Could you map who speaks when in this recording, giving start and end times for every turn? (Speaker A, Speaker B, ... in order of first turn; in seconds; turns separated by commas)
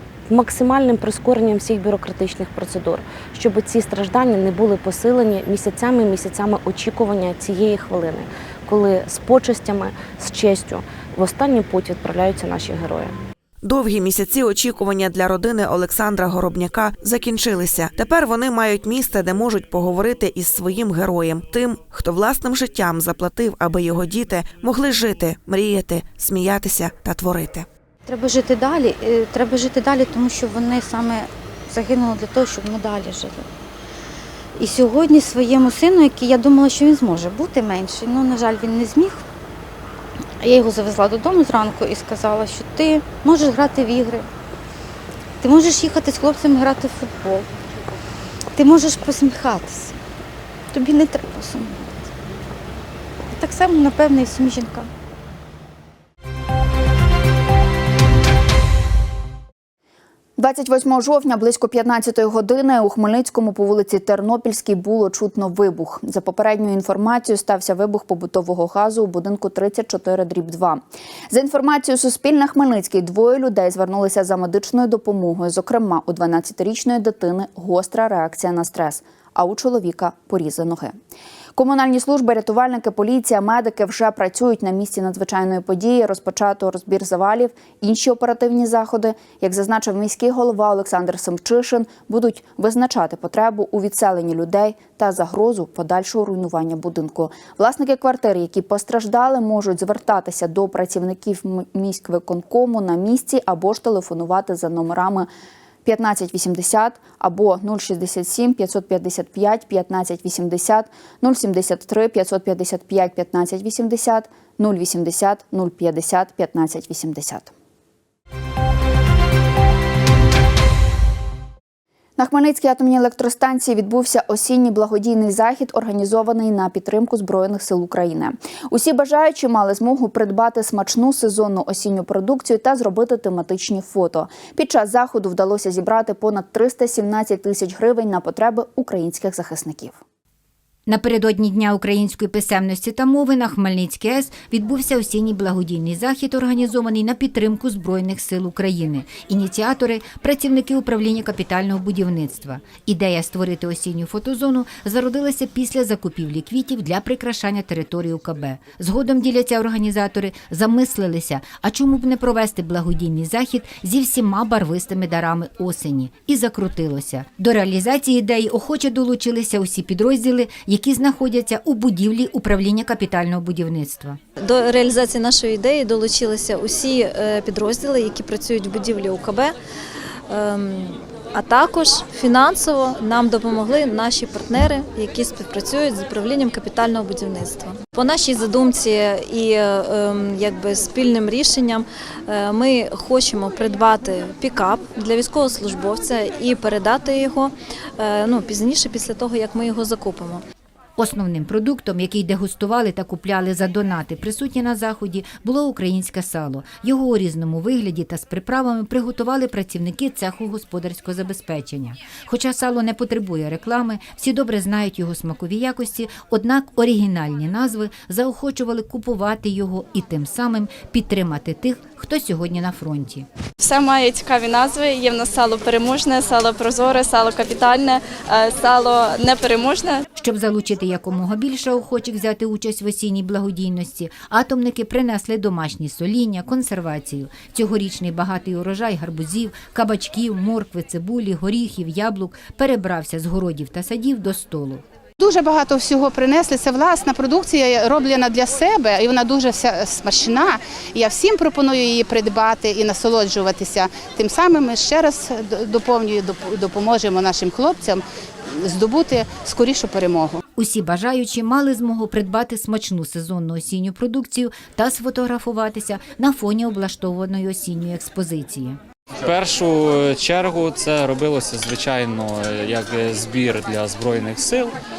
Speaker A: 0.3-13.1, Speaker B: 13.6-27.7, Speaker C: 28.1-33.5, Speaker C: 34.6-39.2, Speaker C: 40.4-44.3, Speaker C: 45.4-47.5, Speaker C: 48.5-50.0, Speaker C: 50.7-52.1, Speaker C: 53.3-54.9, Speaker D: 60.4-81.0, Speaker D: 81.6-105.3, Speaker D: 105.8-117.5, Speaker D: 122.2-140.0, Speaker E: 140.9-174.2, Speaker F: 174.4-179.6, Speaker F: 180.3-200.4, Speaker E: 201.0-223.3, Speaker G: 223.6-230.0, Speaker E: 230.2-244.8, Speaker H: 245.2-258.0, Speaker H: 258.6-260.4, Speaker E: 260.6-268.8, Speaker I: 269.2-274.8